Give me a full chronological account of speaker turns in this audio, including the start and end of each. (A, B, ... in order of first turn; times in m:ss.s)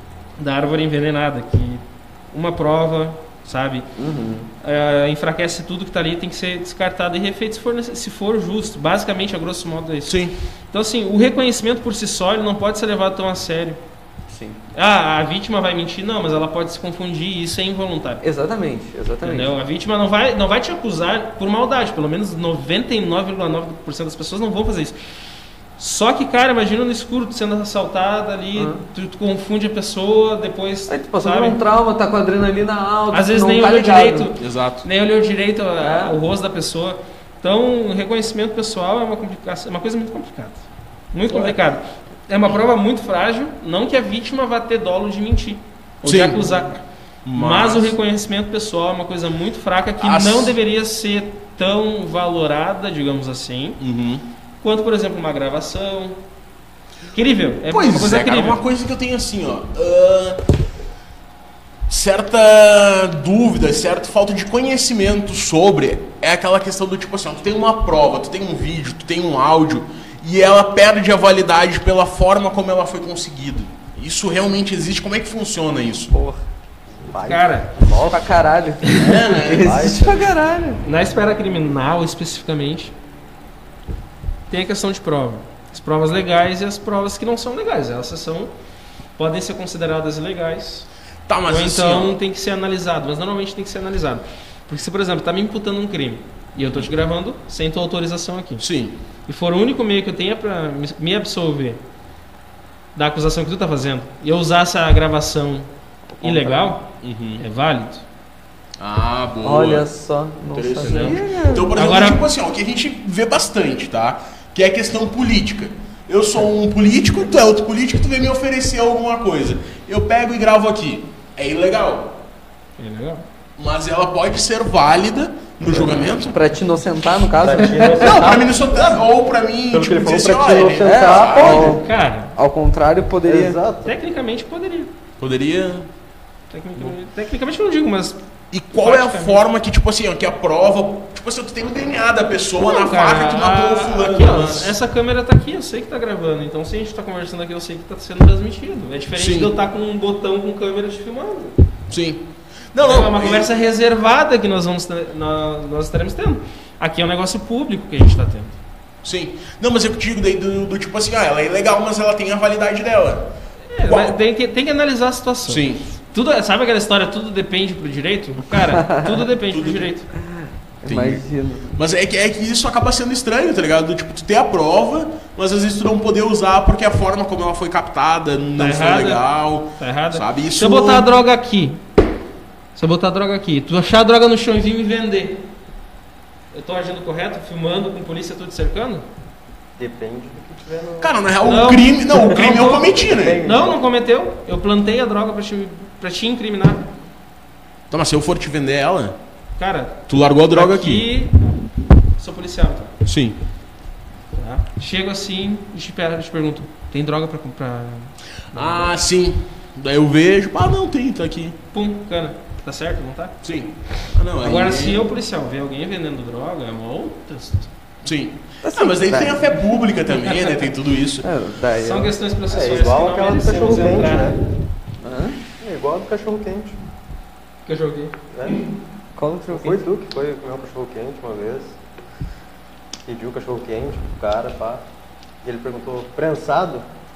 0:00.4-0:03.9 A
0:04.0-0:04.5 B
0:04.6-0:13.8 A
0:10.1-0:10.4 C
0:14.3-0:14.6 B
0:14.8-0:18.2 A
0:18.2-0:19.5 B
0:19.2-0:25.0 A
0:25.8-0:31.6 A
0:30.9-0:34.3 B
0:33.1-0:40.6 A
0:34.4-0:34.9 C
0:35.8-0:36.2 B
0:41.1-0:46.8 A
0:41.3-0:41.6 C
0:46.0-0:46.5 C
0:47.2-0:48.0 C
0:47.3-0:53.8 A
0:50.0-0:50.6 C
0:53.8-0:54.2 C
0:54.6-0:56.2 A
0:57.1-0:58.6 A
0:57.7-1:00.5 C
1:01.9-1:16.1 C
1:16.1-1:16.4 B
1:17.0-1:18.4 D
1:17.2-1:17.7 A
1:17.9-1:20.8 B
1:18.9-1:20.0 C
1:19.5-1:20.3 D
1:20.8-1:22.9 A
1:24.5-1:28.5 A
1:29.2-1:30.9 A
1:31.3-1:32.2 C
1:31.5-1:38.6 A
1:38.6-1:39.0 C
1:39.3-1:41.8 A
1:43.0-1:45.7 A
1:46.2-1:46.7 B
1:46.2-1:46.9 A
1:47.0-1:47.4 C
1:47.4-1:48.0 A
1:48.8-1:49.9 C
1:49.4-1:51.7 B
1:50.5-2:02.2 C
1:50.8-1:52.2 A
2:02.8-2:03.2 A
2:03.6-2:06.4 C
2:06.3-2:08.4 B
2:07.4-2:09.0 D
2:08.0-2:11.8 C
2:09.7-2:11.8 D
2:10.8-2:13.6 B
2:11.4-2:12.4 A
2:13.2-2:13.9 D
2:13.8-2:14.9 A
2:15.2-2:15.9 C
2:16.5-2:18.2 A
2:18.5-2:24.7 C
2:18.8-2:19.4 A
2:22.6-2:31.6 A
2:29.2-2:29.5 C
2:31.9-2:33.5 C
2:32.8-2:38.6 A
2:39.0-2:43.3 C
2:43.7-2:50.1 A
2:43.9-2:44.2 C
2:45.5-2:45.8 C
2:48.5-2:49.2 B
2:49.5-2:49.9 C
2:50.8-2:51.8 B
2:50.9-3:01.1 C
2:58.6-2:59.2 A
2:59.8-3:01.8 A
3:02.8-3:05.4 A
3:06.5-3:09.1 A
3:09.8-3:11.1 D
3:11.0-3:13.4 C
3:11.4-3:16.9 A
3:12.6-3:13.8 D
3:17.9-3:19.2 C
3:19.6-3:21.4 A
3:20.1-3:21.0 C
3:22.2-3:22.9 A
3:23.0-3:23.4 C
3:24.3-3:28.9 A
3:28.5-3:31.6 C
3:31.7-3:33.4 A
3:33.4-3:35.0 C
3:34.4-3:37.7 A
3:38.0-3:41.3 C
3:38.6-3:39.5 B
3:41.2-3:42.1 B
3:41.8-3:44.4 A
3:42.5-3:44.4 D
3:45.0-3:45.4 B
3:45.6-3:46.8 D
3:47.7-3:48.6 A
3:48.3-3:48.6 D
3:49.2-3:49.8 B
3:49.5-3:51.8 D
3:53.0-3:54.8 D
3:55.4-3:56.8 D